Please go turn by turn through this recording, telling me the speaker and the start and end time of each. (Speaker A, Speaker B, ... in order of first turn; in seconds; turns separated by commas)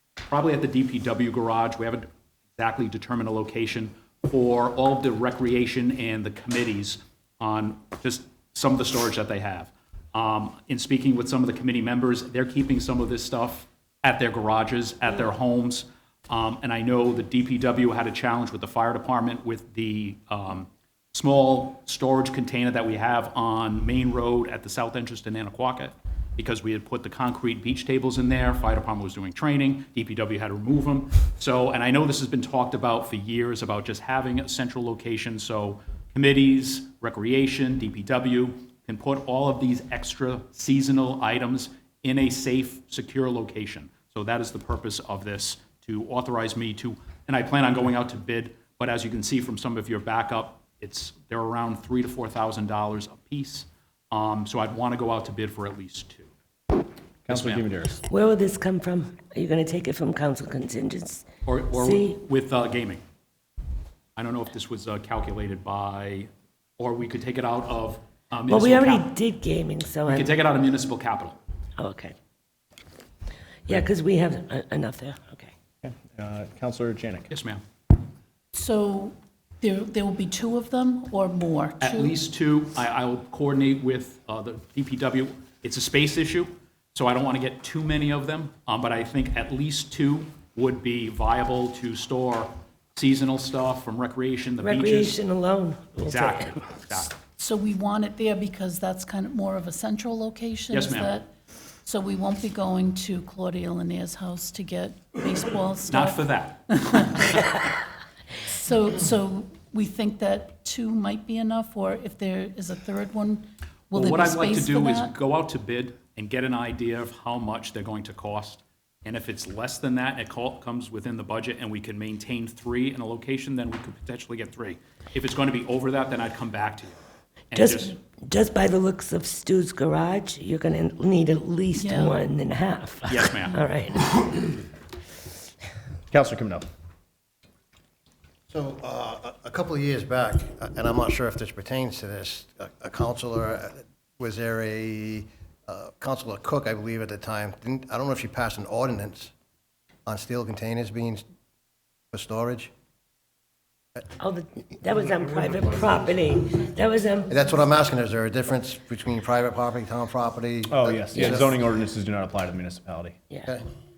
Speaker A: 0.2-56.3, Speaker B: 57.2-58.0, Speaker A: 57.3-57.6, Speaker C: 58.1-62.2, Speaker A: 61.5-63.0, Speaker A: 64.2-69.1, Speaker C: 68.5-70.3, Speaker A: 70.1-71.4, Speaker C: 71.8-72.2, Speaker C: 73.7-75.5, Speaker B: 75.8-77.3, Speaker A: 77.3-77.6, Speaker D: 78.5-82.2, Speaker A: 81.8-95.2, Speaker C: 94.6-96.6, Speaker A: 96.0-97.1, Speaker D: 97.4-101.3, Speaker A: 100.7-101.2, Speaker D: 101.8-107.5, Speaker A: 105.9-107.3, Speaker D: 108.5-115.1, Speaker A: 113.9-128.0, Speaker C: 127.5-134.6, Speaker D: 131.7-132.1, Speaker A: 133.1-133.6, Speaker B: 136.1-136.7, Speaker E: 138.5-149.3, Speaker E: 150.1-151.2, Speaker E: 152.1-152.7, Speaker C: 154.2-157.3, Speaker E: 157.3-161.5, Speaker B: 160.7-163.2, Speaker C: 161.1-161.4